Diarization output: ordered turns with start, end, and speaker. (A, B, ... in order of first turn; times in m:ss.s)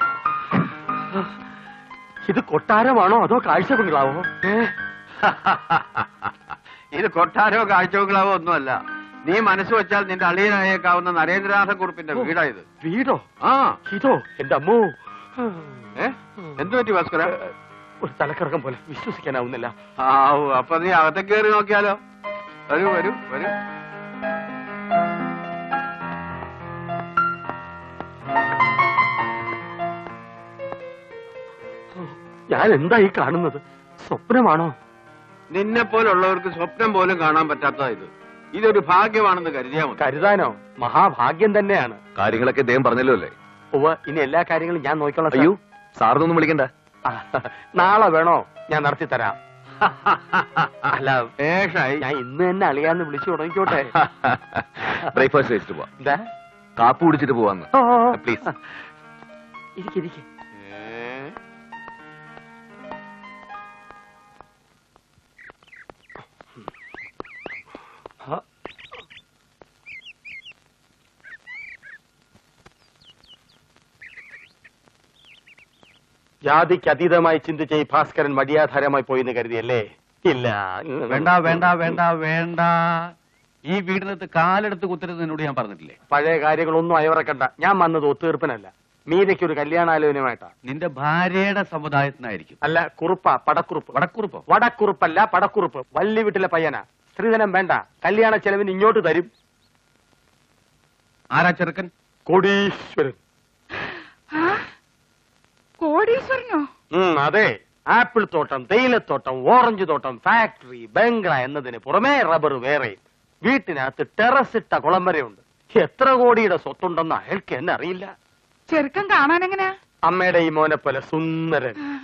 0:02.3-0:04.3 A
0:05.2-0:05.8 B
0:06.9-0:12.6 B
0:12.2-0:13.2 A
0:13.4-0:13.8 B
0:13.9-0:15.7 A
0:16.0-0:17.4 B
0:18.0-0:19.7 A
0:20.0-0:22.0 B
0:22.7-0:23.5 B
0:32.0-0:34.7 A
0:35.5-0:40.0 B
0:40.0-0:42.0 A
0:42.2-0:43.3 C
0:43.7-0:45.6 A
0:45.3-0:46.7 C
0:47.1-0:49.4 A
0:51.0-0:51.3 A
0:51.4-0:52.1 B
0:52.0-0:53.9 A
0:54.0-0:55.9 C
0:56.8-0:58.4 C
0:57.8-0:58.5 A
0:59.8-1:00.2 A
1:00.6-1:01.3 B
1:16.5-1:22.0 A
1:21.1-1:23.1 D
1:23.7-1:26.0 D
1:26.1-1:30.5 A
1:30.7-1:32.6 D
1:32.6-1:33.9 A
1:33.9-1:34.4 D
1:34.5-1:39.3 A
1:41.3-1:41.9 D
1:42.3-1:43.2 A
1:44.4-1:44.6 E
1:45.8-1:46.7 E
1:46.9-1:58.1 A
1:58.7-1:59.7 E
2:00.1-2:01.8 A